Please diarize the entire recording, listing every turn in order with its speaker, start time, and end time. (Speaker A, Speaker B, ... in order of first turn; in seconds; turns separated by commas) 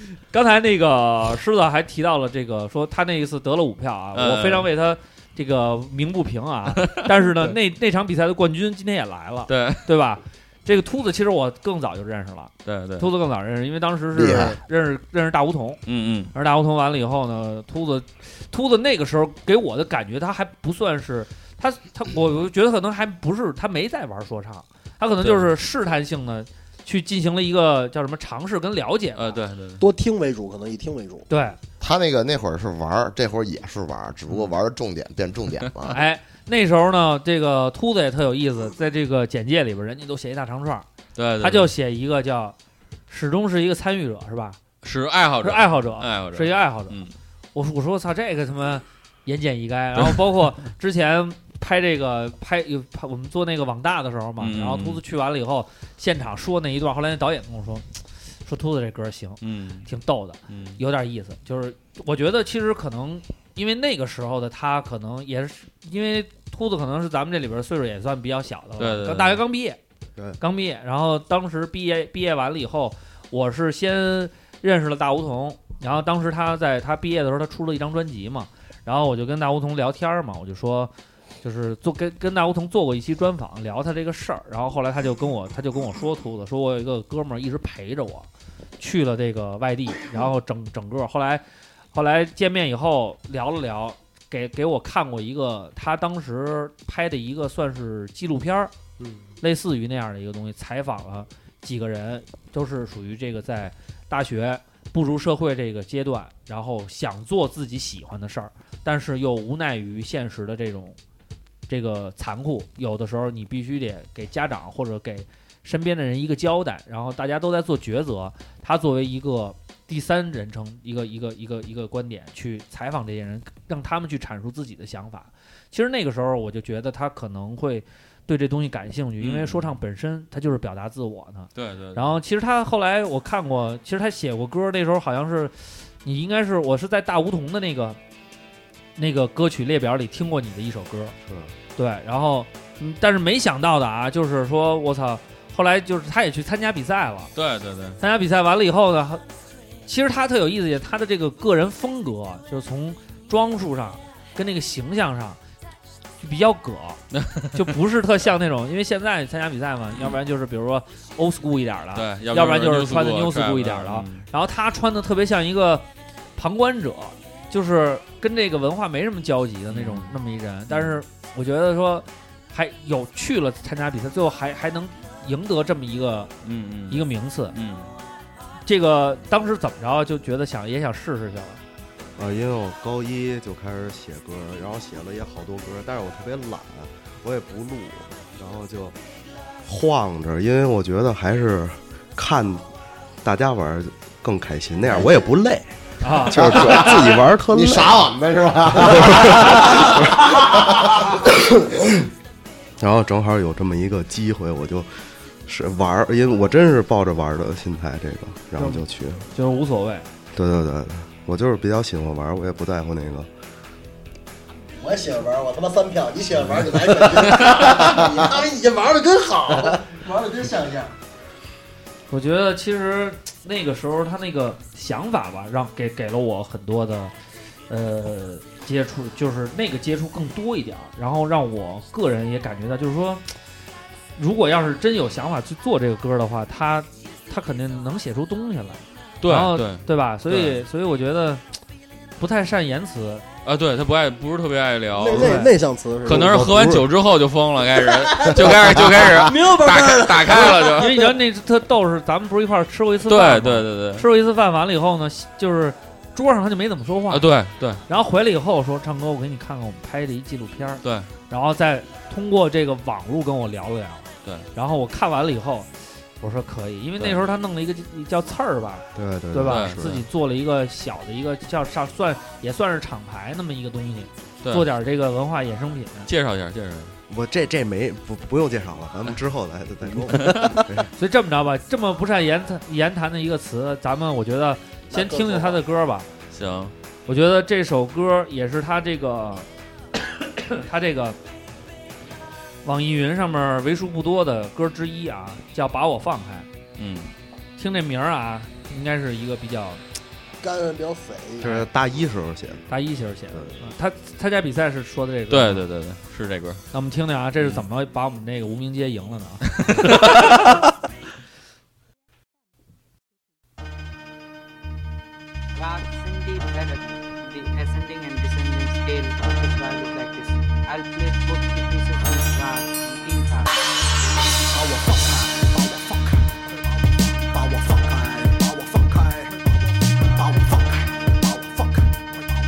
Speaker A: 0.3-15.8, Speaker B: 4.2-4.7, Speaker B: 6.7-7.1, Speaker B: 9.5-9.9, Speaker B: 12.7-13.1, Speaker B: 15.9-16.3, Speaker A: 16.3-29.4, Speaker B: 29.2-29.8, Speaker C: 29.8-31.3, Speaker A: 31.3-31.6, Speaker D: 31.8-36.0, Speaker A: 35.9-40.9, Speaker B: 41.1-41.7, Speaker A: 41.4-42.5, Speaker A: 43.1-44.6, Speaker B: 44.8-47.1, Speaker A: 45.4-47.0, Speaker A: 47.5-57.9, Speaker B: 54.4-55.0, Speaker A: 58.5-69.8, Speaker B: 59.4-59.9, Speaker B: 60.5-60.8, Speaker B: 68.8-69.4, Speaker A: 70.4-80.9, Speaker A: 81.4-88.3, Speaker A: 88.8-98.7, Speaker A: 99.4-111.0, Speaker A: 111.7-138.0, Speaker B: 129.2-129.7, Speaker B: 131.6-132.2, Speaker A: 139.0-141.2, Speaker E: 141.2-141.5, Speaker A: 141.8-147.3, Speaker B: 147.4-148.0, Speaker A: 148.0-149.2, Speaker A: 149.9-155.4, Speaker A: 156.2-157.0, Speaker B: 157.1-157.6, Speaker A: 157.5-165.8, Speaker B: 161.9-164.3, Speaker A: 166.4-176.3, Speaker B: 169.7-170.2, Speaker B: 170.7-171.0, Speaker B: 176.4-177.0, Speaker A: 176.9-177.6, Speaker B: 177.5-177.9, Speaker A: 178.7-181.6, Speaker E: 182.2-188.9, Speaker E: 189.6-192.6, Speaker E: 193.2-195.7, Speaker A: 196.0-196.4, Speaker E: 196.3-198.0, Speaker D: 196.3-201.1, Speaker E: 198.9-199.4, Speaker E: 202.8-204.9, Speaker E: 205.5-209.3, Speaker A: 208.6-210.1, Speaker E: 210.3-213.3, Speaker C: 214.8-220.9, Speaker A: 222.1-227.1, Speaker A: 227.7-233.2, Speaker A: 234.2-241.4, Speaker B: 239.2-240.6, Speaker A: 242.2-243.2, Speaker B: 243.4-245.5, Speaker C: 245.0-246.6, Speaker A: 245.1-245.5, Speaker B: 246.0-250.9, Speaker C: 248.0-251.1, Speaker A: 250.8-257.2, Speaker B: 253.1-254.0, Speaker B: 257.1-257.8, Speaker A: 257.9-265.7, Speaker B: 260.8-261.1, Speaker A: 266.2-276.1, Speaker E: 268.9-270.1, Speaker B: 269.4-269.9, Speaker B: 274.4-274.7, Speaker B: 276.1-277.0, Speaker E: 277.1-280.9, Speaker B: 280.1-280.6, Speaker A: 280.9-286.1, Speaker C: 284.9-285.6, Speaker B: 286.3-286.7, Speaker A: 287.1-289.5, Speaker A: 290.4-291.2, Speaker A: 292.6-296.5, Speaker B: 296.8-297.1, Speaker A: 297.6-299.8, Speaker C: 300.4-301.6, Speaker E: 301.4-302.7, Speaker A: 302.7-305.6, Speaker E: 303.3-303.6, Speaker B: 305.3-306.6, Speaker A: 306.7-310.6, Speaker F: 315.6-323.5, Speaker G: 324.5-326.3, Speaker G: 327.2-332.0